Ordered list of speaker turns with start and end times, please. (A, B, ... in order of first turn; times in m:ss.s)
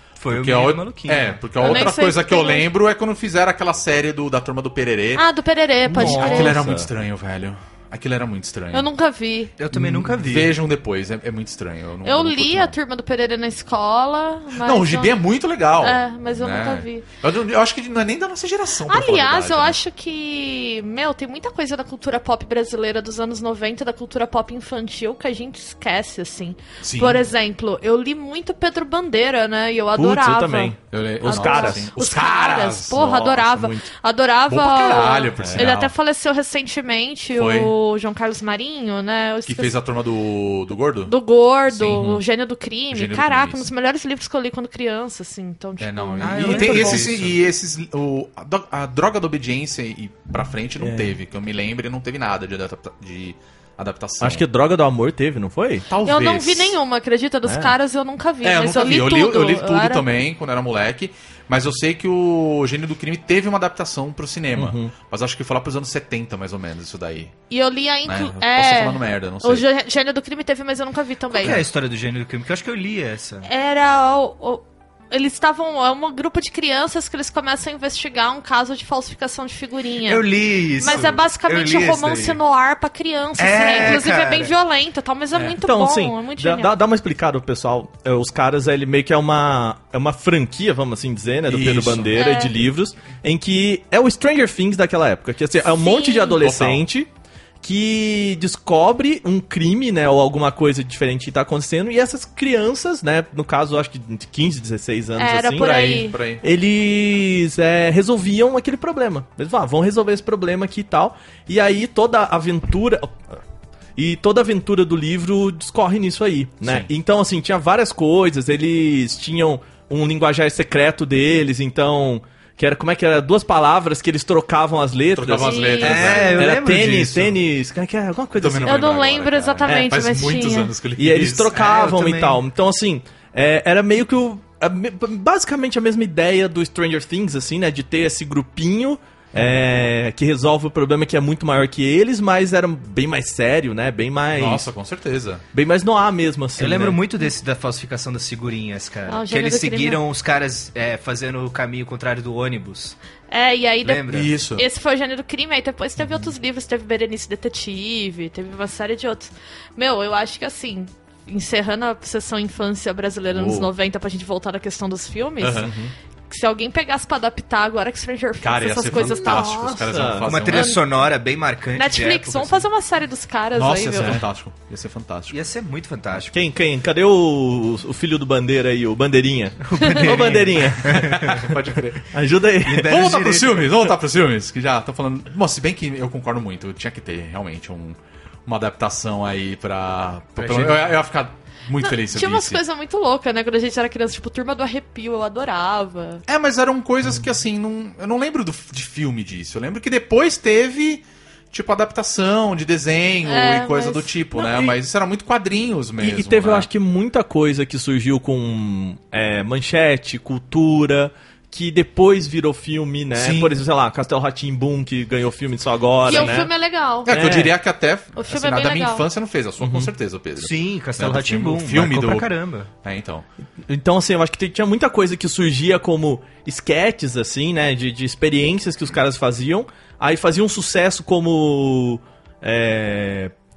0:00.2-0:01.4 A
0:00.3-0:05.2 B
0:01.6-0:02.7 C
0:05.1-0:06.6 C
0:05.8-0:06.9 D
0:05.9-0:08.9 B
0:08.7-0:09.5 C
0:09.6-0:10.6 A
0:09.7-0:12.7 B
0:12.0-0:15.2 C
0:14.6-0:19.8 B
0:15.8-0:17.0 C
0:18.9-0:39.7 C
0:26.8-0:27.2 B
0:29.9-0:31.9 D
0:30.9-0:33.4 B
0:33.2-0:33.8 D
0:34.5-0:35.9 B
0:37.3-0:37.7 B
0:39.4-0:41.1 B
0:41.1-0:47.0 C
0:41.7-0:42.2 B
0:42.9-0:43.7 B
0:45.8-0:54.4 B
0:46.2-0:47.3 A
0:46.5-0:47.2 D
0:50.8-0:51.1 D
0:54.2-0:55.9 D
0:55.9-0:56.8 B
0:56.0-1:00.0 C
0:57.4-0:57.7 D
0:58.4-1:07.3 B
1:04.5-1:04.9 D
1:07.5-1:11.6 C
1:08.0-1:09.6 B
1:11.3-1:13.5 A
1:13.4-1:20.2 C
1:20.0-1:22.4 A
1:20.8-1:26.7 C
1:20.9-1:21.2 B
1:23.4-1:24.5 A
1:25.3-1:25.6 B
1:25.6-1:37.1 D
1:31.5-1:32.2 B
1:32.1-1:32.5 C
1:35.7-1:36.4 C
1:36.4-1:36.8 B
1:37.6-1:53.2 D
1:45.2-1:46.2 C
1:45.6-1:46.4 B
1:54.0-2:08.9 D
1:56.6-1:56.9 B
2:05.1-2:06.6 B
2:05.4-2:06.1 C
2:05.8-2:07.4 A
2:08.4-2:11.5 B
2:08.6-2:10.7 C
2:09.6-2:10.0 D
2:11.0-2:24.7 D
2:11.5-2:12.4 A
2:24.3-2:25.4 B
2:25.5-2:27.0 D
2:26.6-2:33.0 A
2:29.1-2:30.0 C
2:33.3-2:45.7 C
2:33.8-2:34.3 A
2:34.1-2:34.6 B
2:43.3-2:43.7 B
2:45.4-2:45.7 B
2:45.6-2:45.9 D
2:46.3-2:49.8 C
2:48.4-2:50.8 B
2:49.0-2:50.3 D
2:50.2-2:52.7 A
2:50.5-2:50.8 C
2:51.7-2:54.2 C
2:53.5-2:55.4 B
2:55.3-2:56.4 A
2:56.3-3:01.4 D
2:59.7-3:01.3 A
3:00.8-3:02.1 B
3:02.1-3:03.0 D
3:02.6-3:03.7 A
3:02.8-3:12.6 B
3:10.4-3:10.8 A
3:11.8-3:16.2 C
3:16.3-3:26.7 B
3:23.2-3:24.7 C
3:26.0-3:36.5 D
3:33.1-3:33.5 B
3:36.0-3:37.1 C
3:36.1-3:36.3 B
3:37.0-3:42.3 B
3:37.0-3:37.5 D
3:38.2-3:39.0 C
3:39.6-3:39.9 D
3:40.4-3:42.7 A
3:42.8-3:43.2 B
3:43.7-3:53.3 D